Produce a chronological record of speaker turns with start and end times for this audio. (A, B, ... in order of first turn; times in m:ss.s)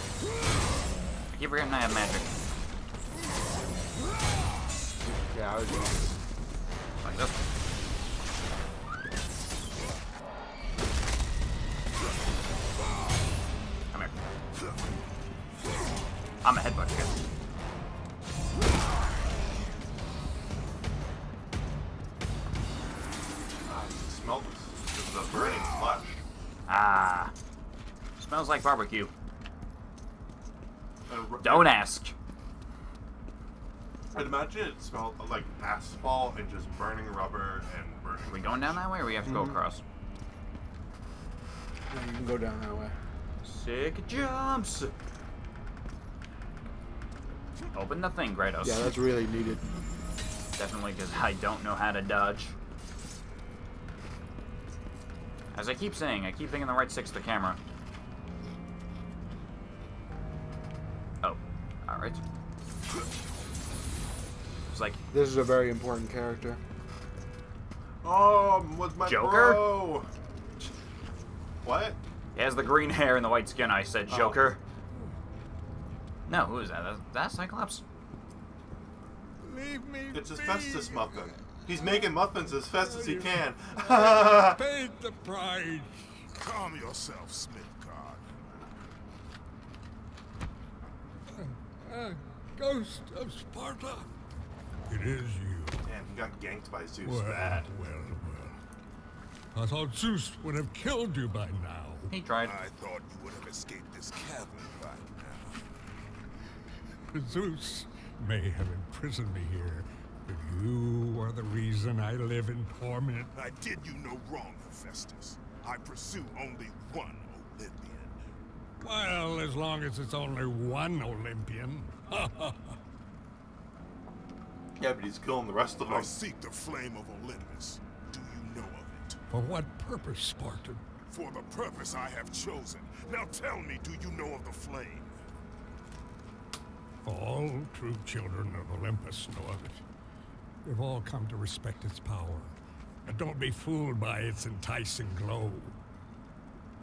0:01.3-0:02.3 A
0:05.0-0:06.2 B
0:07.0-0:07.4 A
0:16.4-0:17.2 A
0:23.7-0:26.2 C
0:26.7-0:27.3 A
0:28.2-0:29.1 A
0:31.1-0:31.8 C
0:31.4-0:32.1 A
0:34.1-0:38.8 C
0:38.3-0:39.8 A
0:39.3-0:39.6 B
0:41.9-0:43.0 B
0:43.4-0:44.9 A
0:47.7-0:48.9 A
0:48.6-0:49.6 B
0:50.6-0:52.6 A
0:55.5-0:57.6 A
1:01.2-1:02.2 A
1:04.7-1:05.0 A
1:05.1-1:06.6 B
1:08.0-1:10.1 C
1:09.0-1:09.7 A
1:11.6-1:12.0 C
1:12.4-1:14.6 A
1:16.3-1:17.8 A
1:19.4-1:26.2 D
1:20.1-1:24.6 C
1:26.4-1:28.3 E
1:31.4-1:34.1 D
1:34.9-1:35.9 D
1:35.9-1:37.7 C
1:37.0-1:38.6 D
1:39.6-1:42.1 D
1:42.1-1:42.6 A
1:42.4-1:45.7 E
1:47.1-1:53.3 D
1:53.3-1:58.2 E
1:58.8-2:02.8 D
2:04.8-2:06.1 C
2:05.8-2:09.2 E
2:09.3-2:10.8 D
2:11.1-2:15.2 E
2:17.0-2:19.8 D
2:20.6-2:22.5 D
2:23.0-2:25.8 D